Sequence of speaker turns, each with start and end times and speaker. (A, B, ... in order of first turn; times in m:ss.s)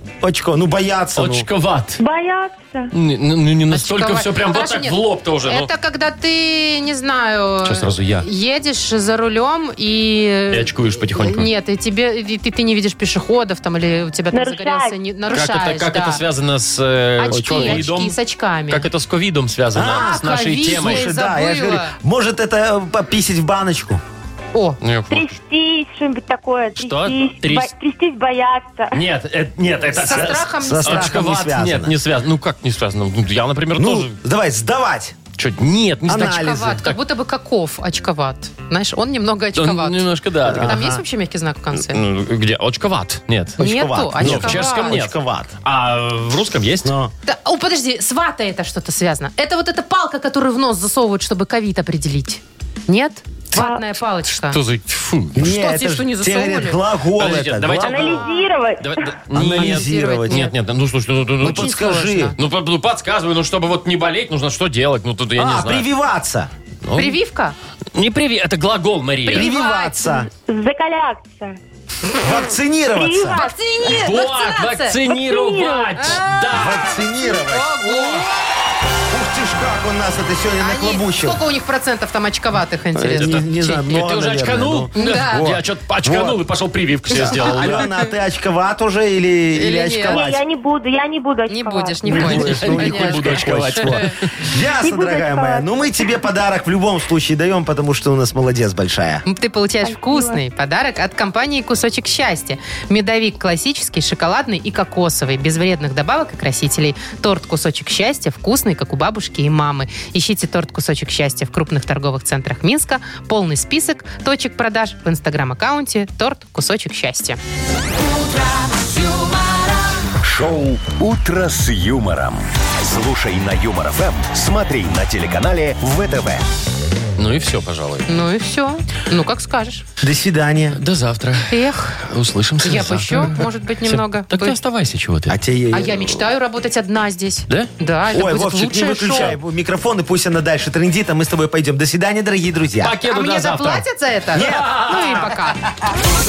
0:00.2-0:01.5 A
0:01.2-0:02.0 B
0:02.0-0:02.9 C
0:02.9-0:05.7 B
0:03.7-0:16.2 D
0:07.6-0:08.2 B
0:10.5-0:11.5 B
0:14.3-0:14.9 C
0:15.3-0:18.2 B
0:17.2-0:18.9 D
0:17.3-0:17.8 A
0:18.7-0:21.1 B
0:19.7-0:24.0 A
0:19.8-0:21.9 D
0:24.5-0:24.8 D
0:24.8-0:25.4 B
0:25.1-0:29.0 C
0:26.8-0:27.7 B
0:28.9-0:34.2 B
0:29.9-0:31.2 D
0:29.9-0:31.9 A
0:33.8-0:35.2 A
0:35.4-0:37.0 B
0:36.1-0:36.8 A
0:36.2-0:42.0 D
0:39.6-0:40.8 B
0:40.4-0:41.0 A
0:41.7-0:43.6 B
0:43.6-0:45.5 A
0:43.6-0:45.1 D
0:44.2-0:46.9 B
0:46.8-0:47.1 A
0:47.2-0:54.6 D
0:53.5-0:53.8 C
0:54.3-0:55.5 B
0:55.3-0:58.2 A
0:55.4-0:56.8 D
0:57.2-0:58.2 B
0:57.8-0:59.1 C
0:58.2-0:58.4 D
0:58.8-1:01.7 B
0:59.3-1:00.5 A
0:59.6-1:00.5 D
1:01.4-1:02.3 A
1:01.4-1:02.4 D
1:02.4-1:05.8 B
1:05.4-1:06.5 A
1:06.8-1:07.2 B
1:07.0-1:07.6 D
1:07.9-1:09.5 B
1:09.2-1:10.2 D
1:09.3-1:10.3 A
1:10.5-1:11.6 C
1:12.2-1:13.4 A
1:12.9-1:14.1 C
1:13.3-1:15.0 D
1:13.9-1:17.0 B
1:15.1-1:16.1 C
1:16.0-1:18.3 D
1:16.5-1:18.3 A
1:19.1-1:21.4 A
1:20.6-1:23.8 D
1:22.9-1:26.4 A
1:23.2-1:27.8 B
1:25.0-1:25.5 D
1:27.1-1:30.4 A
1:27.1-1:28.1 D
1:29.5-1:30.2 D
1:30.1-1:32.0 C
1:31.5-1:34.1 D
1:32.1-1:39.2 A
1:32.1-1:34.3 B
1:34.8-1:35.6 C
1:39.2-1:57.4 D
1:39.8-1:40.4 C
2:00.2-2:06.4 E
2:07.2-2:08.1 B
2:08.1-2:09.8 D
2:10.0-2:10.8 A
2:10.7-2:15.4 B
2:11.5-2:12.0 D
2:12.6-2:14.6 D
2:15.3-2:16.1 A
2:15.7-2:19.4 D
2:18.1-2:22.9 A
2:22.8-2:25.3 B
2:23.1-2:25.6 D
2:24.3-2:24.8 A